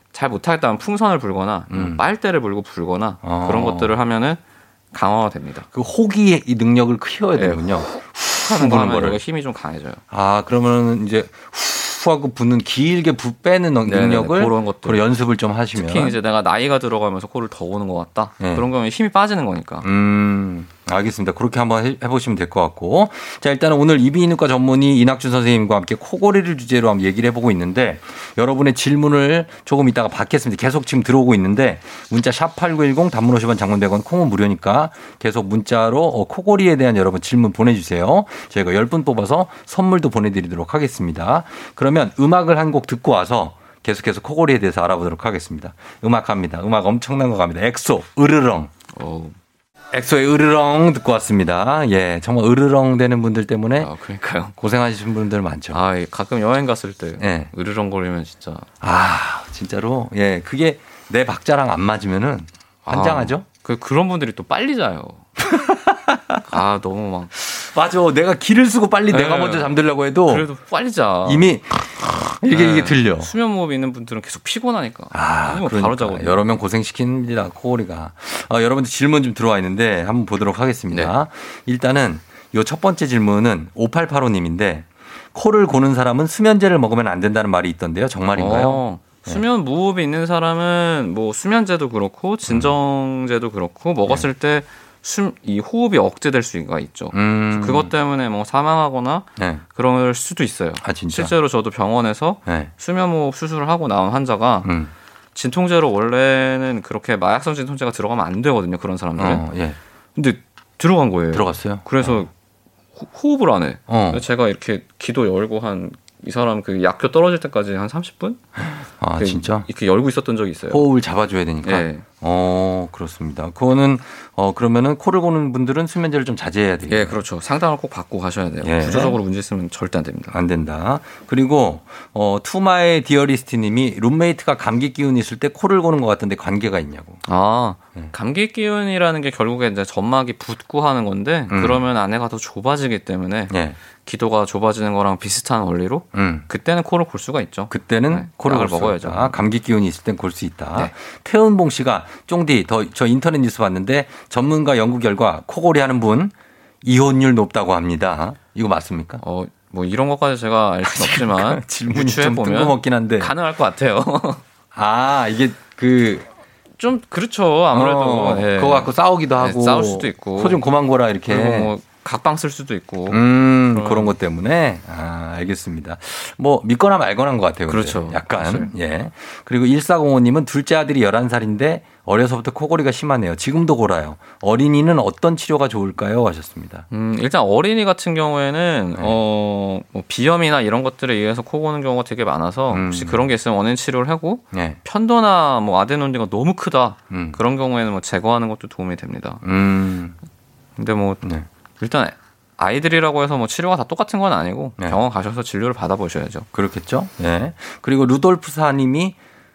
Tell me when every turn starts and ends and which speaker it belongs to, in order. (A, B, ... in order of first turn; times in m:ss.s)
0:00.1-0:04.4 A
0:01.7-0:02.0 B
0:03.2-0:04.0 B
0:04.9-0:05.7 A
0:05.7-0:09.2 B
0:07.4-0:10.0 A
0:10.1-0:16.2 B
0:13.8-0:15.0 A
0:15.7-0:19.9 A
0:18.4-0:18.7 B
0:19.8-0:48.7 B
0:48.9-0:49.4 A
0:49.9-0:53.9 B
0:53.8-0:54.5 A
0:54.6-0:55.8 B
0:55.7-0:58.7 A
0:57.2-0:57.5 B
0:58.8-1:03.4 B
1:02.8-1:05.2 A
1:05.4-1:06.4 B
1:06.5-1:07.3 A
1:07.4-1:10.5 B
1:09.1-1:11.5 A
1:11.2-1:13.3 B
1:12.5-1:16.4 A
1:15.1-1:29.4 B
1:28.3-1:44.7 A
1:32.5-1:32.7 B
1:37.1-1:37.9 B
1:39.4-1:39.6 B
1:40.8-1:41.3 B
1:42.4-1:42.7 B
1:44.6-1:44.9 B
1:45.3-1:49.4 A
1:49.2-1:49.8 B
1:50.2-1:52.3 A
1:51.3-1:52.2 B
1:53.0-1:58.4 A
1:53.9-1:54.2 B
1:59.0-1:59.7 B
1:59.2-2:00.8 A
2:00.7-2:07.2 B
2:01.6-2:02.0 A
2:06.9-2:10.4 A
2:08.6-2:09.2 B
2:10.3-2:17.2 B
2:17.2-2:29.4 A
2:21.5-2:21.8 B
2:23.5-2:23.8 B
2:26.1-2:26.5 B
2:27.7-2:39.2 B
2:39.2-2:44.4 A
2:40.8-2:43.3 B
2:44.7-2:46.2 B
2:46.8-2:50.6 A
2:47.7-2:51.7 B
2:51.3-2:54.1 A
2:53.1-3:06.8 B
2:57.7-2:58.7 A
3:06.9-3:19.4 A
3:12.7-3:13.3 B
3:14.5-3:14.8 B
3:17.1-3:17.4 B
3:19.4-3:20.2 B
3:20.8-3:21.2 A
3:21.8-3:26.4 A
3:26.5-3:29.2 B